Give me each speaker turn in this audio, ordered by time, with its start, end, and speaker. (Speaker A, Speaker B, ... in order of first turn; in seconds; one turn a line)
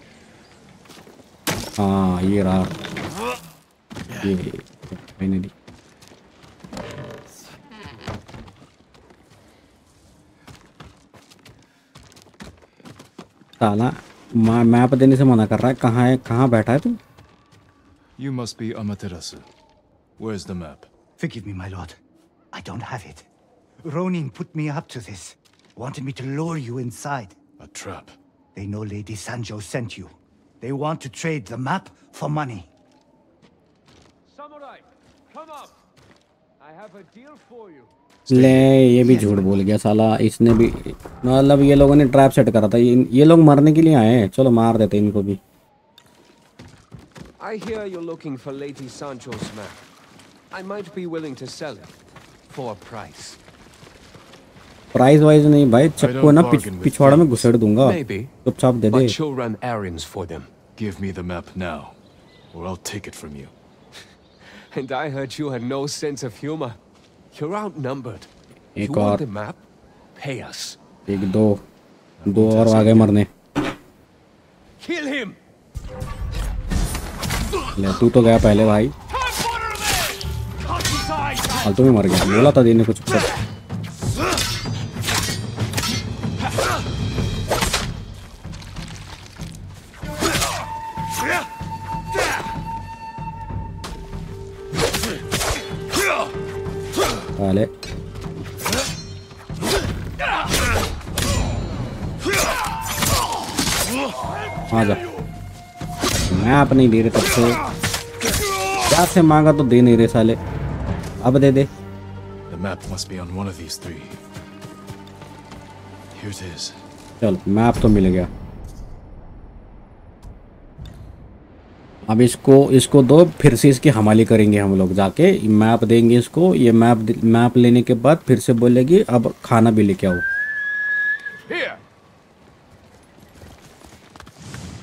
Speaker A: 1.8-2.7
Speaker A: 4.2-5.5
Speaker A: 13.6-17.0
Speaker B: 18.2-19.5
Speaker B: 20.2-20.9
Speaker C: 21.2-22.0
Speaker C: 22.5-23.3
Speaker C: 23.8-27.4
Speaker B: 27.6-28.1
Speaker C: 28.5-32.7
Speaker D: 34.3-35.7
Speaker D: 36.6-37.9
Speaker A: 38.3-45.4
Speaker B: 38.3-38.7
Speaker C: 39.0-39.5
Speaker D: 47.4-49.9
Speaker D: 50.5-51.9
Speaker D: 52.5-53.4
Speaker A: 54.9-59.1
Speaker B: 56.0-57.5
Speaker D: 57.8-58.3
Speaker D: 58.9-60.5
Speaker B: 60.8-61.9
Speaker B: 62.5-63.5
Speaker D: 64.4-66.8
Speaker D: 67.3-68.3
Speaker A: 68.8-69.2
Speaker D: 68.8-69.6
Speaker D: 70.1-70.8
Speaker A: 71.1-71.6
Speaker B: 72.2-73.1
Speaker A: 72.2-73.3
Speaker D: 74.8-75.4
Speaker A: 77.8-78.9
Speaker D: 79.7-80.0
Speaker D: 80.6-81.7
Speaker A: 81.6-83.3
Speaker A: 97.4-97.7
Speaker A: 104.7-105.0
Speaker A: 106.3-107.6
Speaker A: 108.9-110.4
Speaker A: 111.2-111.7
Speaker B: 112.5-114.2
Speaker B: 116.1-116.8
Speaker A: 117.2-118.3
Speaker A: 122.1-130.2
Speaker D: 131.5-131.8